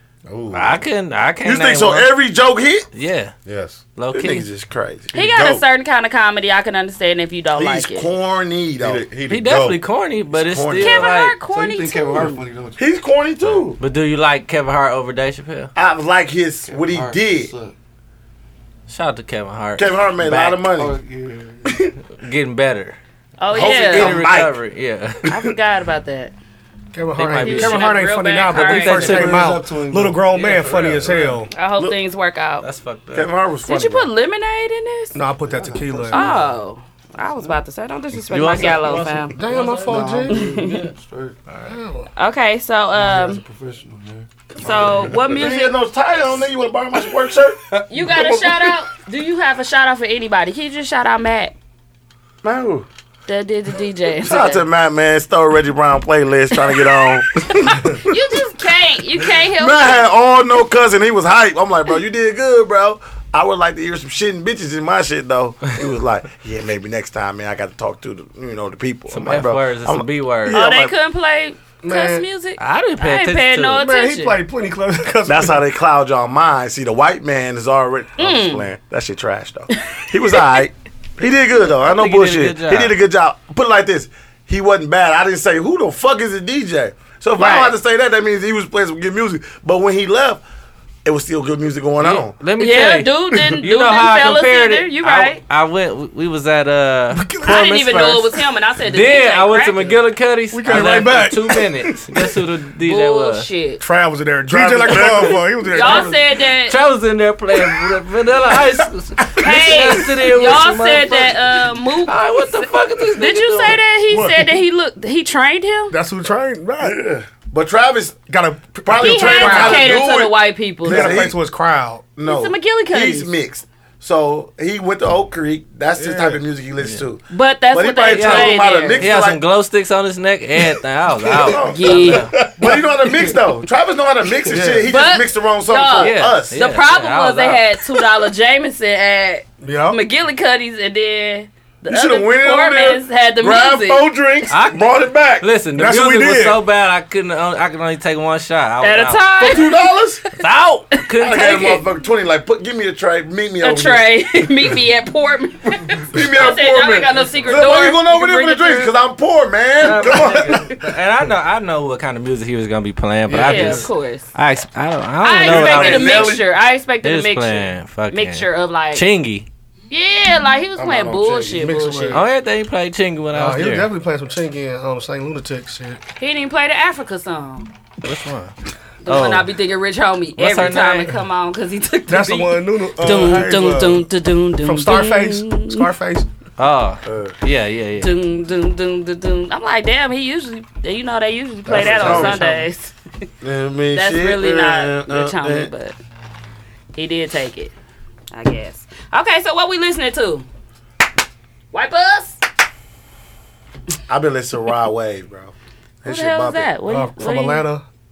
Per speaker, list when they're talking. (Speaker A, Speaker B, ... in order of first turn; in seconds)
Speaker A: 0.3-0.8, 3.4-3.8, 5.1-5.6, 8.8-9.8
Speaker B: 0.5-2.1, 2.9-3.3, 4.0-4.5, 9.3-11.4, 13.8-15.7, 18.9-20.6, 22.2-23.0, 23.6-25.2, 27.2-28.0, 28.5-29.4, 30.3-31.4, 32.6-33.3, 38.3-40.9, 41.5-41.8, 69.1-70.6, 72.6-73.8, 81.8-82.9, 92.0-98.3, 98.8-103.5, 106.6-113.8, 128.1-132.3, 136.0-137.6, 144.5-149.2, 159.8-166.4, 167.0-169.5, 172.1-173.9, 178.0-178.5, 179.1-179.5, 180.4-181.2, 186.6-188.1
Speaker C: 1.4-2.8, 4.1-5.1, 7.5-9.0, 10.3-11.1, 12.8-13.8, 15.8-17.5, 19.8-20.9, 21.6-21.9, 23.5-24.6, 33.1-34.1, 35.9-36.3, 45.2-47.6, 52.4-52.9, 54.2-58.0, 59.4-70.9, 75.2-90.4, 91.0-92.3, 93.3-93.6, 104.5-105.5, 116.8-118.3, 118.8-121.3, 122.2-129.4, 131.2-136.6, 141.9-145.5, 149.4-150.2, 151.2-154.1, 156.1-160.7, 165.4-166.4, 187.1-187.3, 191.7-192.4, 193.4-195.7, 204.1-206.7
Speaker D: 5.1-8.1, 10.8-12.4, 23.4-24.3, 25.2-26.3, 27.2-29.4, 31.5-32.6, 33.6-35.2, 36.1-39.4, 40.3-40.8, 42.1-43.4, 44.6-45.8, 47.9-51.5, 53.3-54.6, 58.0-60.1, 70.5-74.4, 78.2-78.7, 79.7-80.5, 87.4-87.7, 92.6-95.4, 97.4-100.0, 102.8-103.8, 105.7-106.8, 109.4-115.9, 119.0-121.2, 122.2-123.3, 127.3-129.0, 131.6-132.3, 134.8-144.0, 148.8-151.8, 153.6-158.9, 163.4-164.3, 165.2-169.0, 169.9-172.2, 176.2-177.7, 179.0-185.9, 188.0-192.9, 193.9-196.0, 196.9-197.7, 198.3-200.4, 201.7-202.4, 206.1-207.6
Speaker E: 11.4-12.8, 16.7-17.7, 20.8-21.8, 28.7-31.4, 35.5-36.4, 39.8-41.4, 42.9-45.4, 47.7-48.7, 134.4-134.7, 163.3-163.9
Speaker F: 26.9-31.5, 35.1-36.3, 39.3-40.4, 41.7-42.1, 71.8-72.2, 73.8-75.6, 97.1-98.1, 100.5-102.3, 103.8-106.2, 114.1-114.5, 115.9-117.0, 118.3-120.0, 120.8-122.0, 126.0-126.4, 134.5-134.8, 139.6-140.0, 145.7-146.6, 171.3-172.2, 173.3-176.0, 182.1-184.1, 184.6-186.3, 191.9-192.6, 206.9-207.8